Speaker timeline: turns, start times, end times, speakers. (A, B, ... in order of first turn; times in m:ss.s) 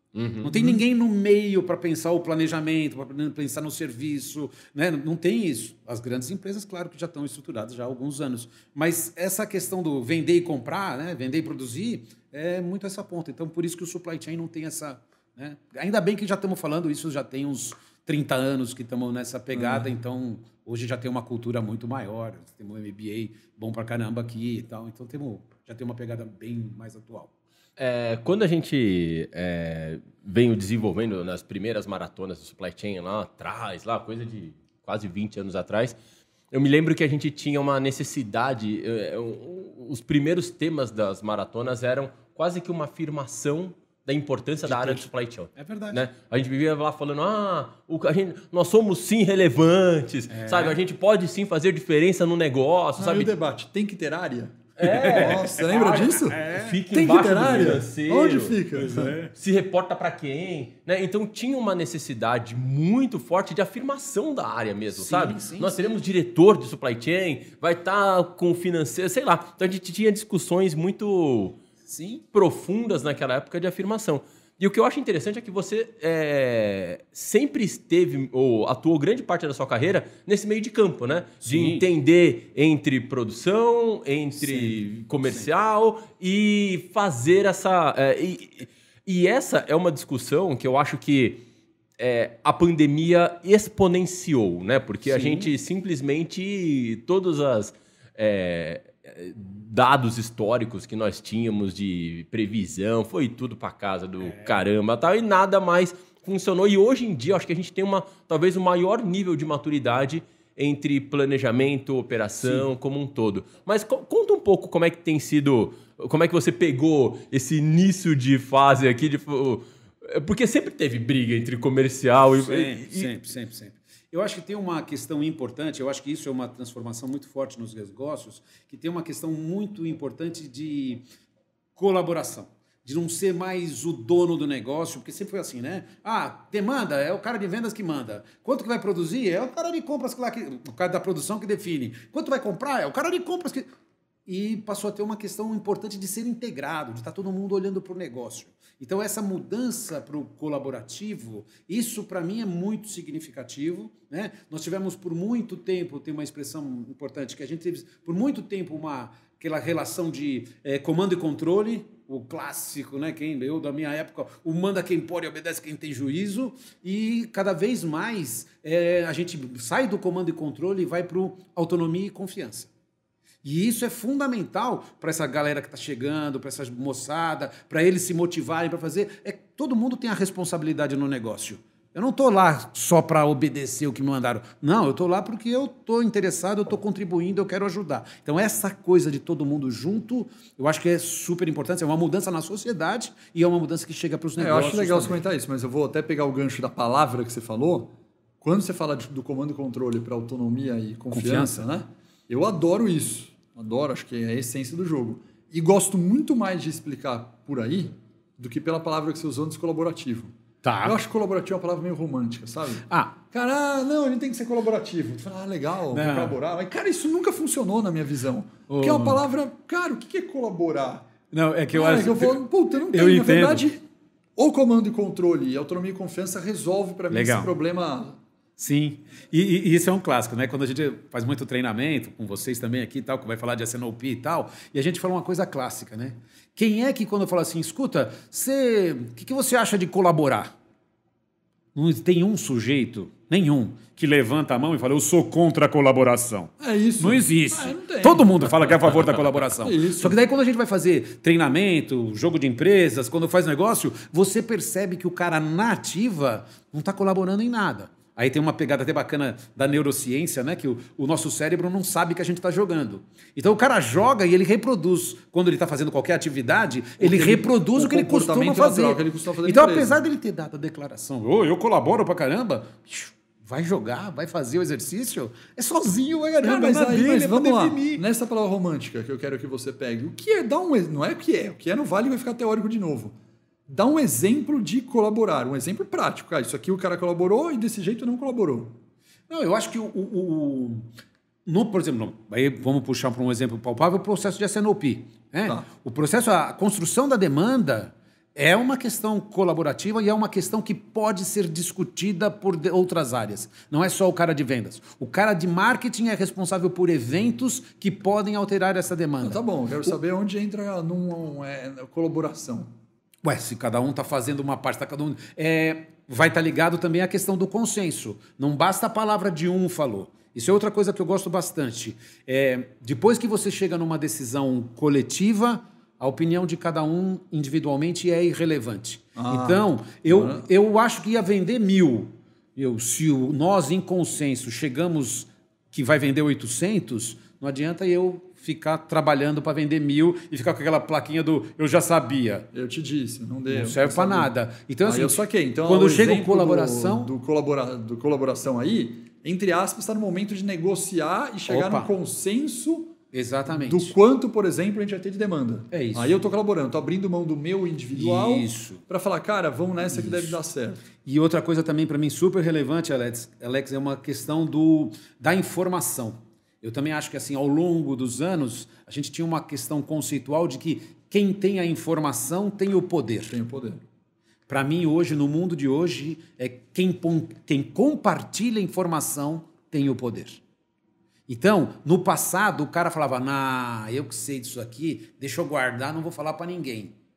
0:00.1-0:00.5 A
0:00.4-0:27.3 B
0:19.5-0:19.9 C
0:27.8-0:36.0 A
0:36.5-0:53.3 A
0:44.6-0:46.0 B
0:50.3-0:50.8 B
0:53.0-0:59.2 C
0:54.8-0:58.6 A
0:54.8-0:56.8 B
0:58.8-0:59.3 B
0:59.3-1:11.6 A
1:05.0-1:05.8 B
1:11.9-1:12.2 B
1:12.3-1:31.4 A
1:21.4-1:21.8 B
1:24.4-1:24.7 B
1:32.0-2:03.2 A
1:35.1-1:35.5 B
1:44.2-1:44.6 B
2:02.3-2:11.0 B
2:11.8-2:23.7 B
2:24.3-2:52.7 B
2:53.4-3:15.2 B
3:14.4-3:30.3 C
3:21.1-3:21.7 B
3:30.6-3:31.0 B
3:30.8-3:41.1 C
3:32.9-3:33.2 B
3:35.9-3:36.4 B
3:38.7-3:39.2 B
3:41.3-3:43.6 B
3:41.7-3:43.8 C
3:44.4-3:48.2 C
3:47.1-3:47.5 B
3:48.6-4:00.6 B
4:01.8-4:38.0 B
4:06.6-4:08.5 C
4:09.6-4:10.2 C
4:27.0-4:30.0 C
4:36.4-4:43.2 C
4:43.7-4:48.8 C
4:49.3-4:50.9 B
4:51.5-5:10.0 B
5:09.2-5:12.7 C
5:13.2-5:42.5 B
5:29.2-5:30.5 C
5:42.5-5:44.3 C
5:43.5-5:47.1 B
5:44.9-5:53.0 C
5:51.5-5:51.9 B
5:53.1-5:54.0 B
5:53.5-6:00.8 C
5:55.7-5:56.2 B
5:57.9-5:58.8 B
5:59.8-6:00.4 B
6:01.0-6:13.4 B
6:13.3-6:13.8 C
6:14.5-6:20.4 B
6:21.3-6:27.0 B